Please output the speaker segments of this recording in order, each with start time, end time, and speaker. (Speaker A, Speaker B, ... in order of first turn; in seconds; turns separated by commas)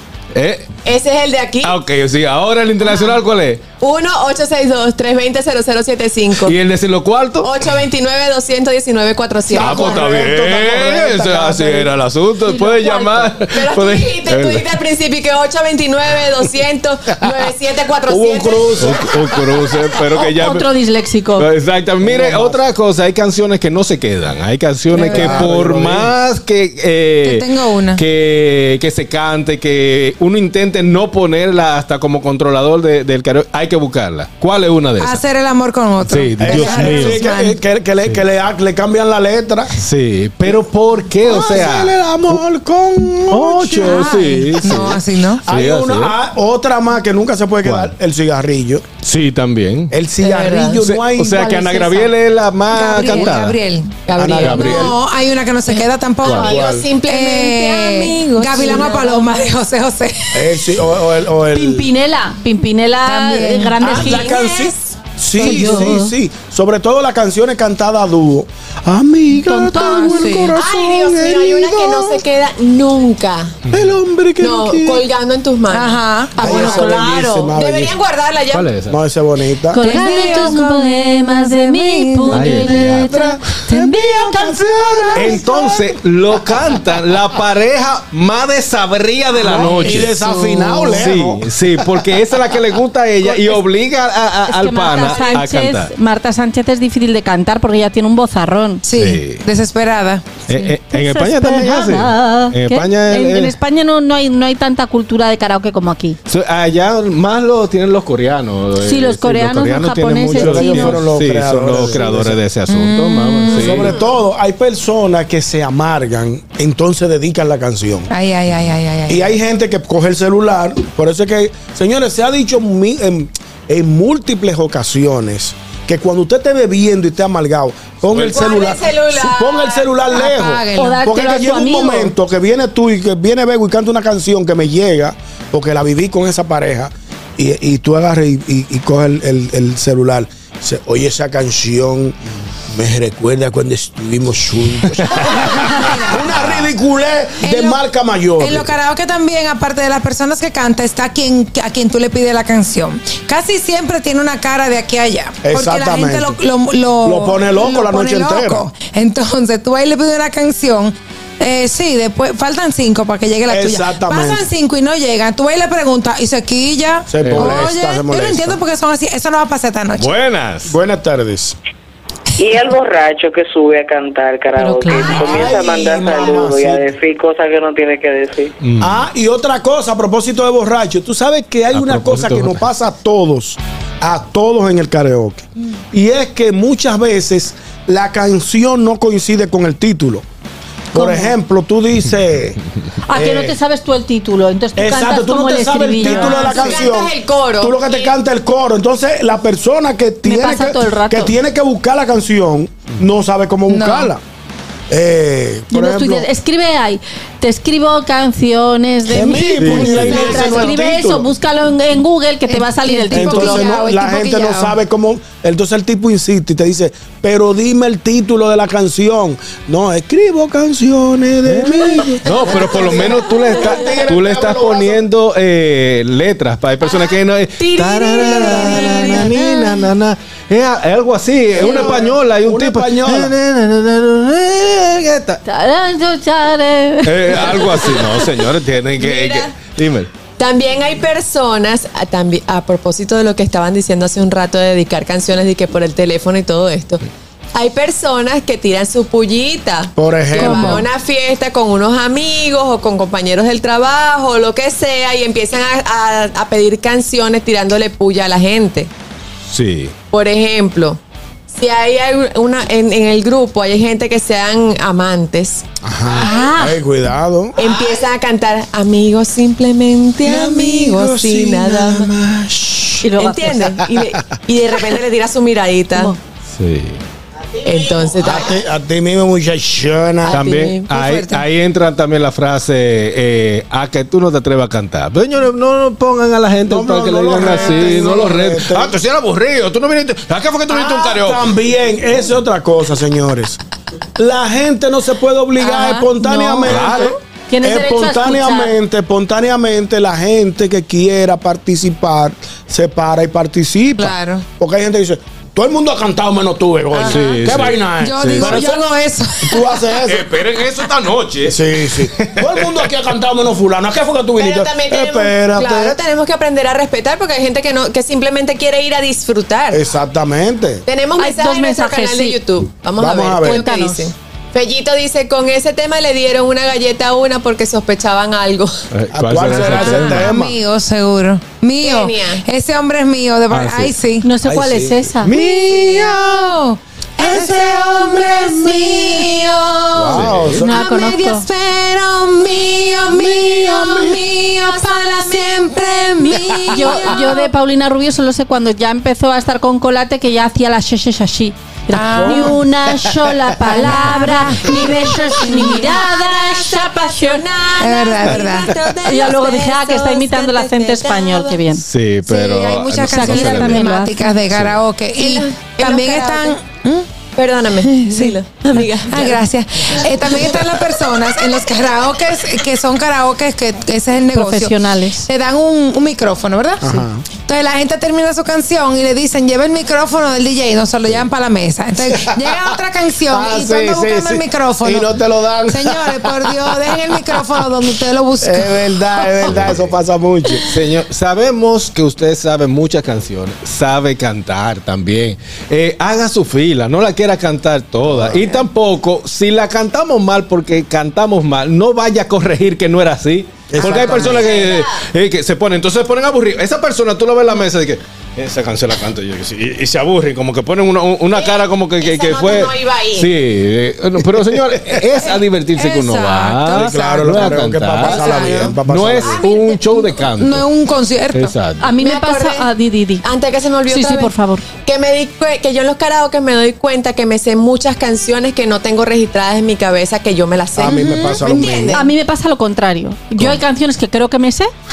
Speaker A: 0.3-0.7, Speaker B: 0.8-1.7, Speaker A: 1.6-3.6, Speaker B: 3.8-6.5, Speaker A: 6.4-7.6, Speaker B: 7.4-10.1, Speaker C: 9.5-11.9, Speaker A: 9.6-14.7, Speaker D: 9.6-10.2, Speaker E: 12.4-13.3, Speaker B: 13.5-18.9, Speaker C: 18.1-19.0, Speaker A: 18.8-20.7, Speaker E: 20.2-21.5, Speaker A: 21.4-35.2, Speaker C: 22.0-22.6, Speaker C: 24.9-26.1, Speaker D: 27.6-28.0, Speaker D: 35.0-37.5, Speaker B: 35.1-37.0, Speaker A: 36.1-37.2, Speaker C: 36.4-39.8, Speaker A: 39.8-42.4, Speaker C: 41.2-44.1, Speaker A: 43.3-46.1, Speaker D: 43.9-45.4, Speaker C: 45.5-48.8, Speaker A: 47.6-47.9, Speaker A: 49.0-49.9, Speaker C: 49.9-51.6, Speaker B: 50.2-50.8, Speaker A: 50.8-53.6, Speaker B: 52.7-59.7, Speaker D: 52.8-53.9, Speaker A: 54.2-54.9, Speaker C: 54.2-54.9, Speaker D: 54.7-60.5, Speaker A: 56.2-56.6, Speaker C: 56.4-56.9, Speaker C: 60.3-61.9, Speaker E: 61.5-64.4, Speaker B: 63.0-63.7, Speaker D: 63.3-64.1, Speaker C: 63.8-72.2, Speaker B: 64.2-64.6, Speaker E: 65.4-66.1, Speaker E: 69.4-70.5, Speaker B: 69.8-73.5, Speaker A: 73.7-74.3, Speaker C: 73.7-75.0, Speaker B: 74.4-77.0, Speaker D: 75.7-76.6, Speaker E: 76.3-77.5, Speaker C: 76.4-77.9, Speaker B: 77.6-78.7, Speaker A: 78.5-79.0, Speaker C: 78.9-79.8, Speaker E: 79.7-85.4, Speaker D: 79.8-80.9, Speaker B: 79.8-82.4, Speaker D: 81.7-82.7, Speaker A: 82.3-83.4, Speaker C: 83.7-85.6, Speaker A: 85.2-90.2, Speaker C: 89.4-92.4, Speaker D: 89.5-91.0, Speaker A: 90.9-95.9, Speaker C: 93.3-93.6, Speaker E: 94.5-98.8, Speaker D: 98.9-100.2, Speaker A: 98.9-99.4, Speaker A: 100.5-103.5, Speaker E: 100.5-106.2, Speaker A: 106.3-114.0, Speaker E: 108.8-111.0, Speaker C: 110.3-112.4, Speaker D: 112.8-113.9, Speaker C: 113.5-118.1, Speaker D: 118.1-119.2, Speaker C: 119.1-142.2, Speaker A: 128.1-128.5, Speaker B: 128.3-129.6, Speaker D: 129.3-130.9, Speaker B: 130.5-130.9, Speaker E: 130.8-132.1, Speaker C: 142.7-148.7, Speaker A: 144.9-146.7, Speaker D: 145.3-146.2, Speaker D: 147.4-147.8, Speaker D: 148.4-160.9, Speaker B: 148.8-155.2, Speaker C: 155.4-156.4, Speaker B: 156.4-156.7, Speaker C: 157.0-158.7, Speaker B: 158.8-160.9, Speaker B: 161.4-163.2, Speaker D: 161.5-164.5, Speaker C: 163.5-164.5, Speaker B: 164.5-166.8, Speaker D: 165.3-170.0, Speaker C: 167.1-168.6, Speaker A: 167.2-167.7, Speaker B: 168.6-170.0, Speaker A: 170.0-170.7, Speaker C: 170.6-171.6, Speaker F: 172.4-178.5, Speaker E: 174.6-175.6, Speaker C: 175.0-176.9, Speaker A: 178.6-179.0, Speaker C: 178.8-190.2, Speaker A: 181.7-182.6, Speaker C: 190.9-192.6, Speaker E: 191.0-191.2, Speaker E: 193.1-196.8, Speaker C: 193.1-193.6, Speaker C: 194.8-204.2, Speaker B: 196.1-198.1, Speaker E: 200.2-201.3, Speaker D: 203.7-204.1, Speaker C: 204.9-206.3, Speaker E: 205.7-213.7, Speaker C: 209.1-211.3, Speaker A: 209.6-210.4, Speaker D: 212.5-214.7, Speaker C: 213.1-225.1, Speaker A: 221.5-235.4, Speaker B: 227.6-229.3, Speaker D: 228.1-228.7, Speaker E: 228.5-229.7, Speaker C: 231.5-233.3, Speaker E: 235.4-238.3, Speaker A: 237.0-240.1, Speaker B: 239.0-239.5, Speaker B: 240.4-258.9, Speaker C: 249.9-250.8, Speaker D: 250.3-250.8, Speaker A: 259.5-259.9, Speaker B: 260.1-261.0, Speaker B: 261.5-265.6, Speaker C: 265.8-267.6, Speaker E: 266.1-266.8, Speaker B: 267.6-272.1, Speaker C: 270.2-273.1, Speaker E: 273.0-273.7, Speaker B: 273.2-276.1, Speaker A: 276.6-277.0, Speaker B: 277.6-278.5, Speaker C: 278.2-280.4, Speaker B: 280.2-281.3, Speaker A: 280.3-291.5, Speaker C: 286.7-288.9, Speaker C: 290.7-293.6, Speaker C: 294.2-308.9, Speaker D: 295.6-296.6, Speaker A: 296.6-297.2, Speaker E: 297.5-298.7, Speaker D: 304.0-304.4, Speaker A: 307.0-308.7, Speaker D: 308.1-309.9, Speaker B: 308.9-309.2, Speaker C: 309.4-310.3, Speaker A: 310.1-312.9, Speaker C: 311.4-316.0, Speaker B: 314.4-319.8, Speaker C: 319.7-320.8, Speaker B: 320.9-328.7, Speaker E: 321.2-322.4, Speaker C: 323.0-323.6, Speaker E: 323.4-324.1, Speaker A: 328.9-330.3, Speaker C: 329.1-330.6, Speaker D: 329.7-332.1, Speaker B: 330.7-334.0, Speaker D: 332.6-334.2, Speaker A: 333.5-333.9, Speaker E: 334.2-335.3, Speaker C: 334.5-335.9, Speaker A: 335.2-335.5, Speaker D: 335.3-347.2, Speaker C: 337.2-337.6, Speaker A: 337.9-338.8, Speaker A: 339.9-340.7, Speaker C: 339.9-340.8, Speaker E: 340.5-341.4, Speaker B: 340.9-341.4, Speaker A: 343.4-344.0, Speaker B: 344.7-346.8, Speaker E: 346.6-357.4, Speaker D: 352.0-352.6, Speaker C: 352.2-352.6, Speaker D: 353.7-354.7, Speaker B: 354.7-361.6, Speaker D: 355.6-355.9, Speaker D: 357.8-358.8, Speaker E: 359.1-361.8, Speaker A: 361.8-363.8, Speaker D: 362.3-367.0, Speaker E: 363.0-364.1, Speaker B: 363.6-371.7, Speaker D: 367.8-374.7, Speaker B: 372.6-373.6, Speaker B: 374.1-374.7, Speaker E: 374.3-375.3, Speaker B: 375.3-375.7, Speaker D: 375.4-385.1, Speaker C: 376.8-377.2, Speaker B: 381.1-381.7, Speaker C: 382.1-382.7, Speaker C: 383.3-387.5, Speaker D: 385.7-389.5, Speaker C: 388.4-390.7, Speaker A: 389.5-389.9, Speaker A: 390.6-420.6, Speaker C: 398.1-398.6, Speaker C: 403.7-404.6, Speaker B: 404.4-405.1, Speaker B: 411.3-413.3, Speaker D: 415.9-417.5, Speaker C: 416.7-419.4, Speaker D: 418.0-419.3, Speaker B: 419.2-419.7, Speaker D: 420.4-421.5, Speaker A: 421.3-421.9, Speaker E: 421.8-423.2, Speaker B: 422.0-422.7, Speaker B: 423.2-424.3, Speaker E: 423.9-424.6, Speaker B: 424.8-432.0, Speaker C: 430.8-432.1, Speaker D: 430.9-431.7, Speaker E: 431.9-434.7